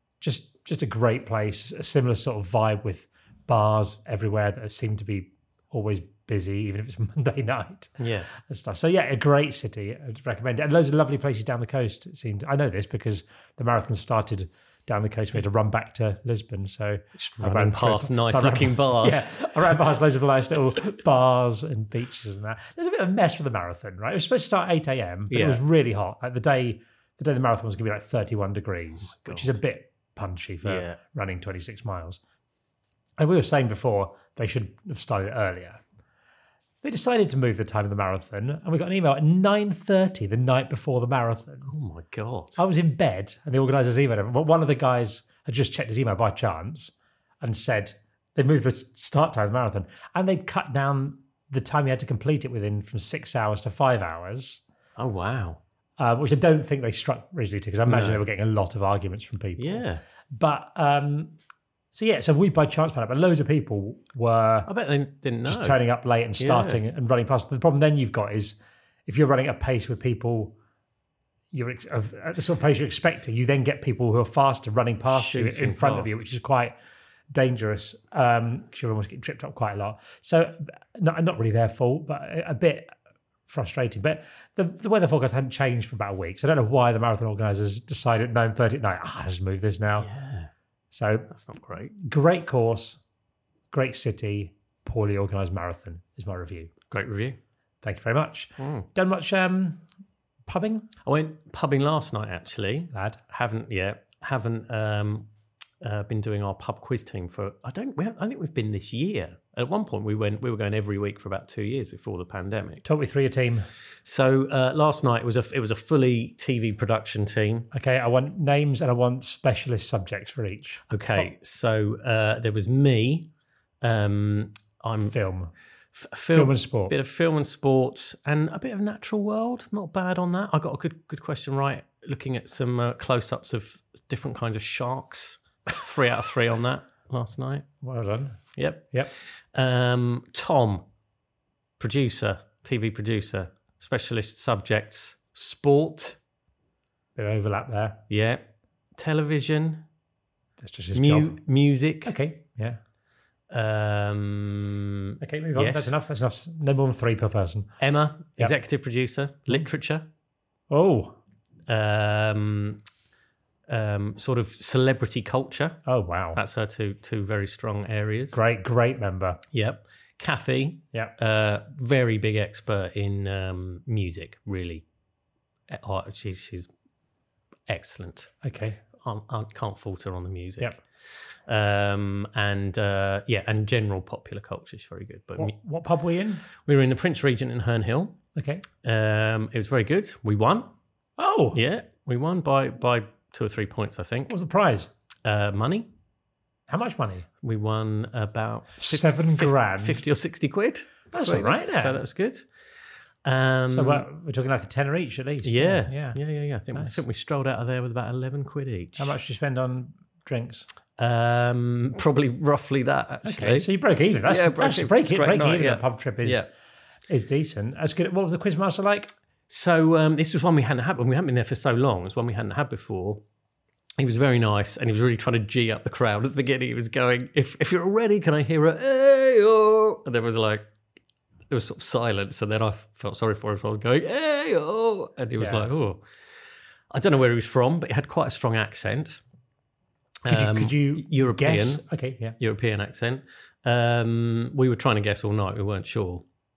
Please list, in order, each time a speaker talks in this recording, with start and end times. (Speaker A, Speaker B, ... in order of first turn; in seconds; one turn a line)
Speaker A: 0.2-32.2
Speaker B: 8.0-8.3
Speaker B: 17.1-19.3
Speaker B: 25.3-25.6
Speaker B: 29.0-29.6
Speaker B: 30.6-31.0
Speaker A: 33.2-35.8
Speaker A: 36.8-41.7
Speaker B: 41.7-42.6
Speaker A: 42.5-54.6
Speaker B: 55.0-55.6
Speaker A: 56.0-61.3
Speaker B: 57.9-58.2
Speaker B: 59.6-60.0
Speaker A: 61.9-64.7
Speaker B: 64.7-65.8
Speaker A: 65.4-70.5
Speaker B: 66.4-66.8
Speaker A: 71.5-76.7
Speaker B: 75.1-76.2
Speaker A: 77.3-82.9
Speaker A: 83.5-90.1
Speaker B: 90.0-90.5
Speaker A: 90.9-91.3
Speaker B: 91.3-91.9
Speaker A: 91.9-93.0
Speaker A: 93.7-96.7
Speaker B: 96.9-97.4
Speaker A: 97.8-99.8
Speaker B: 98.6-98.9
Speaker A: 100.5-100.9
Speaker B: 101.0-105.3
Speaker A: 102.9-103.2
Speaker B: 105.8-112.8
Speaker A: 112.8-113.7
Speaker B: 114.0-117.7
Speaker A: 117.7-121.3
Speaker B: 120.9-123.3
Speaker B: 123.8-125.2
Speaker A: 125.0-125.5
Speaker B: 125.9-137.7
Speaker A: 126.3-126.9
Speaker A: 137.8-139.1
Speaker B: 138.5-140.8
Speaker B: 141.8-146.2
Speaker A: 147.2-148.0
Speaker B: 148.1-148.4
Speaker B: 149.0-149.8
Speaker A: 150.6-151.4
Speaker B: 150.9-152.1
Speaker A: 152.0-152.8
Speaker B: 153.5-155.9
Speaker A: 155.2-157.7
Speaker B: 157.8-160.1
Speaker A: 160.7-161.2
Speaker B: 161.7-162.8
Speaker B: 163.7-168.4
Speaker A: 165.8-166.4
Speaker A: 168.3-169.4
Speaker B: 169.5-174.8
Speaker B: 175.7-176.7
Speaker B: 177.7-178.4
Speaker A: 178.4-178.8
Speaker B: 179.0-185.6
Speaker A: 185.3-186.4
Speaker B: 186.5-188.2
Speaker A: 188.3-188.6
Speaker B: 188.8-190.7
Speaker A: 191.2-191.6
Speaker B: 191.5-194.3
Speaker A: 194.3-194.9
Speaker B: 195.2-195.9
Speaker A: 196.7-197.3
Speaker B: 197.4-202.7
Speaker A: 198.8-200.0
Speaker A: 201.1-202.0
Speaker B: 203.2-204.1
Speaker A: 203.7-206.2
Speaker B: 205.4-209.2
Speaker A: 206.7-207.0
Speaker A: 209.0-210.7
Speaker B: 211.0-213.7
Speaker A: 213.2-216.4
Speaker B: 214.2-216.5
Speaker A: 217.1-219.1
Speaker B: 219.5-223.2
Speaker B: 224.0-230.7
Speaker B: 231.5-236.1
Speaker A: 235.4-235.7
Speaker B: 236.9-239.2
Speaker B: 240.2-241.8
Speaker A: 240.3-242.3
Speaker B: 242.4-246.2